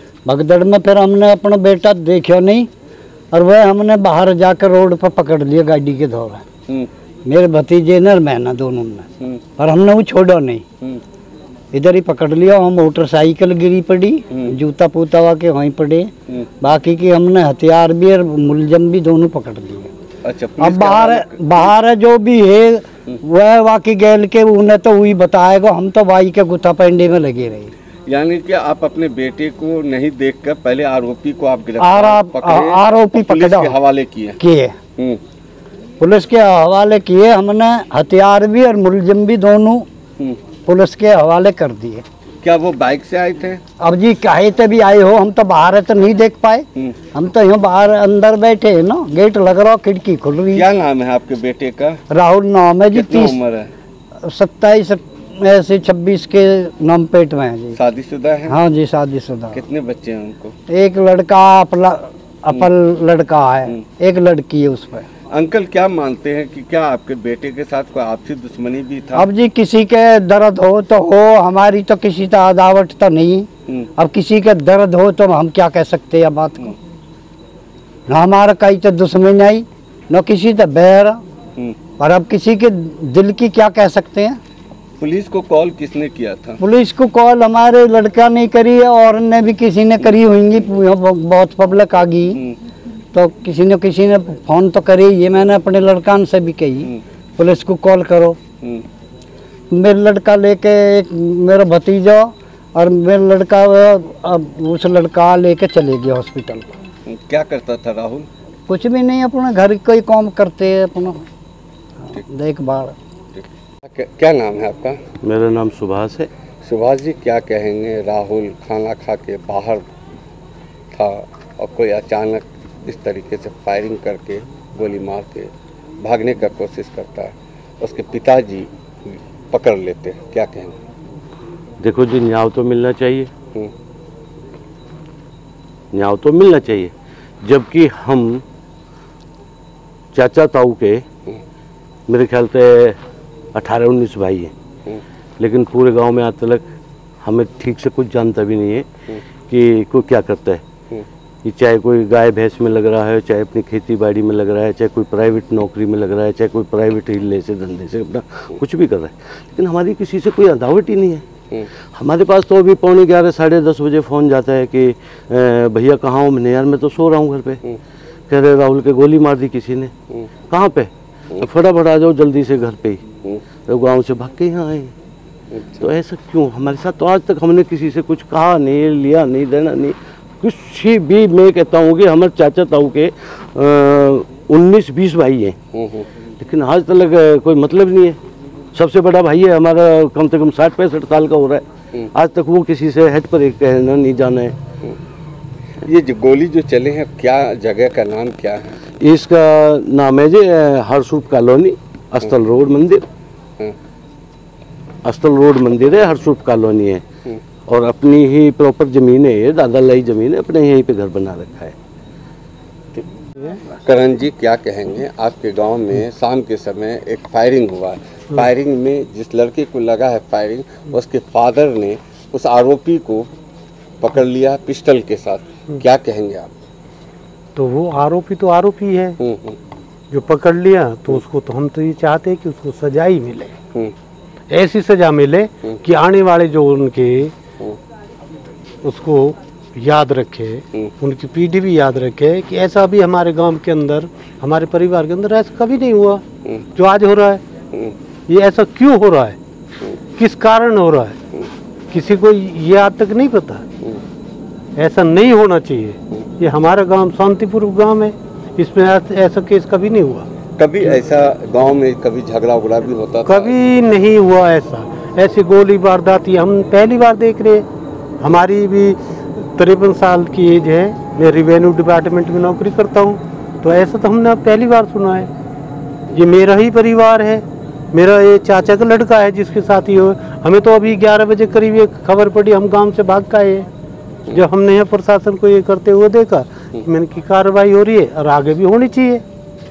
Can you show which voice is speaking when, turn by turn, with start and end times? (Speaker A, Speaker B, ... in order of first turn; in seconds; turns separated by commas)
Speaker A: 0.3-2.7, Speaker A: 3.3-6.5, Speaker A: 7.2-10.6, Speaker A: 11.7-16.1, Speaker A: 16.6-19.9, Speaker B: 20.2-21.7, Speaker A: 20.6-27.7, Speaker B: 28.1-34.4, Speaker A: 31.8-33.8, Speaker A: 34.4-34.8, Speaker A: 36.0-39.9, Speaker A: 40.6-42.0, Speaker B: 42.4-43.6, Speaker A: 43.8-50.7, Speaker B: 50.5-52.0, Speaker A: 52.1-53.4, Speaker B: 52.9-53.7, Speaker A: 54.2-57.8, Speaker B: 57.8-58.6, Speaker A: 58.5-59.6, Speaker B: 59.5-60.5, Speaker A: 60.7-65.1, Speaker B: 65.3-69.3, Speaker A: 69.2-76.8, Speaker A: 78.1-81.2, Speaker A: 82.0-84.4, Speaker B: 85.0-86.6, Speaker A: 86.6-92.4, Speaker A: 93.1-98.4, Speaker A: 99.7-106.7, Speaker B: 107.1-108.3, Speaker A: 108.7-111.2, Speaker A: 112.1-113.0, Speaker B: 113.4-115.0, Speaker C: 115.2-116.3, Speaker B: 116.6-119.8, Speaker B: 120.9-125.5, Speaker B: 126.0-130.8, Speaker C: 131.8-133.3, Speaker C: 135.9-138.4, Speaker C: 140.1-141.0, Speaker C: 142.1-143.0, Speaker C: 143.5-144.5, Speaker C: 145.4-146.7, Speaker C: 147.2-148.9, Speaker C: 149.5-150.6, Speaker C: 151.4-161.2, Speaker C: 162.0-167.6, Speaker C: 168.3-169.9, Speaker C: 170.5-173.0, Speaker C: 173.7-174.9, Speaker B: 175.5-175.8, Speaker C: 175.8-185.6, Speaker B: 185.7-186.1, Speaker C: 186.4-188.2, Speaker C: 188.7-194.6, Speaker B: 195.8-198.7, Speaker C: 199.0-203.1, Speaker C: 205.0-207.0, Speaker C: 207.7-211.8, Speaker B: 213.7-223.3, Speaker B: 224.0-226.5, Speaker D: 227.6-229.2, Speaker B: 229.2-229.6, Speaker D: 230.1-233.5, Speaker D: 234.5-237.3, Speaker D: 238.8-246.2, Speaker D: 246.8-247.4, Speaker D: 248.3-249.4, Speaker D: 250.2-251.2, Speaker D: 251.9-253.6, Speaker D: 254.8-260.3, Speaker B: 260.6-263.5, Speaker D: 263.3-267.6, Speaker D: 268.2-275.3, Speaker D: 276.1-283.7, Speaker D: 284.3-289.2